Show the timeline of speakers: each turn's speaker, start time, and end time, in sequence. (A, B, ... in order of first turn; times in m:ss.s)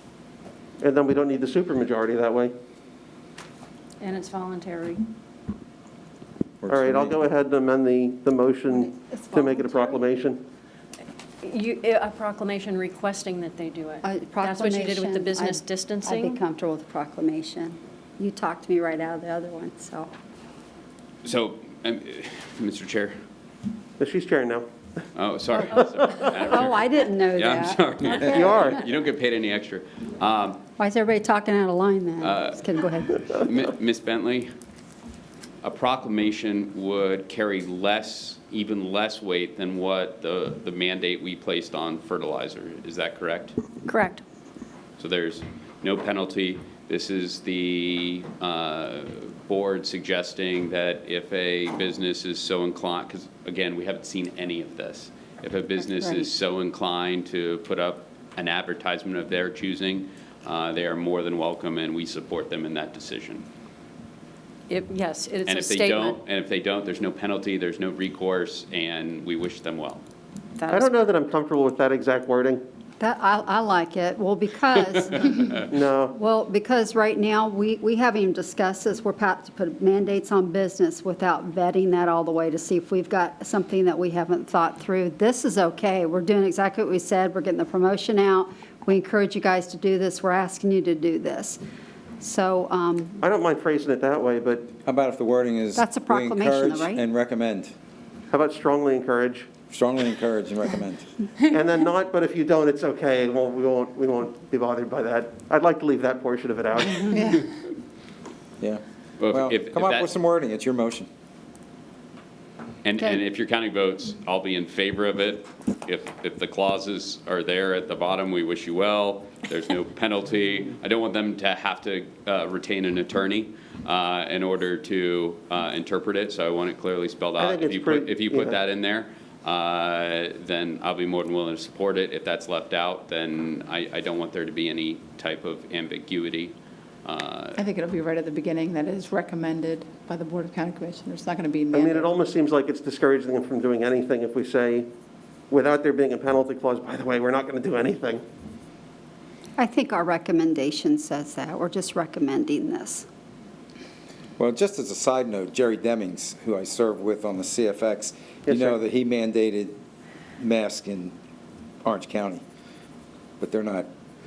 0:00.8-0:02.5 A
0:04.0-0:05.0 B
0:06.6-0:07.1 C
0:06.7-0:10.4 A
0:08.8-0:10.0 D
0:11.4-0:16.4 B
0:14.0-0:20.1 D
0:21.2-0:23.2 E
0:24.0-0:24.7 A
0:25.2-0:30.6 E
0:26.5-0:28.6 D
0:28.3-0:28.7 A
0:30.8-0:33.2 D
0:32.2-0:32.6 E
0:33.2-0:34.5 E
0:35.6-0:43.6 E
0:43.9-0:44.2 B
0:45.0-1:03.4 E
1:04.7-1:06.2 B
1:05.5-1:10.0 E
1:10.6-1:10.9 B
1:10.7-1:12.6 A
1:13.0-1:31.6 D
1:15.7-1:16.1 A
1:32.2-1:33.2 D
1:33.2-1:34.7 A
1:34.8-1:37.7 C
1:35.8-1:37.0 D
1:38.3-1:39.5 A
1:39.7-1:41.1 C
1:41.5-1:47.4 A
1:48.6-1:51.1 C
1:49.2-1:50.1 E
1:52.8-2:17.6 E
2:07.4-2:08.5 A
2:17.6-2:22.1 F
2:21.8-2:24.9 A
2:25.5-2:28.2 A
2:29.6-2:33.1 D
2:34.4-2:39.8 C
2:40.4-2:41.2 C
2:41.8-2:42.4 C
2:43.4-2:43.9 C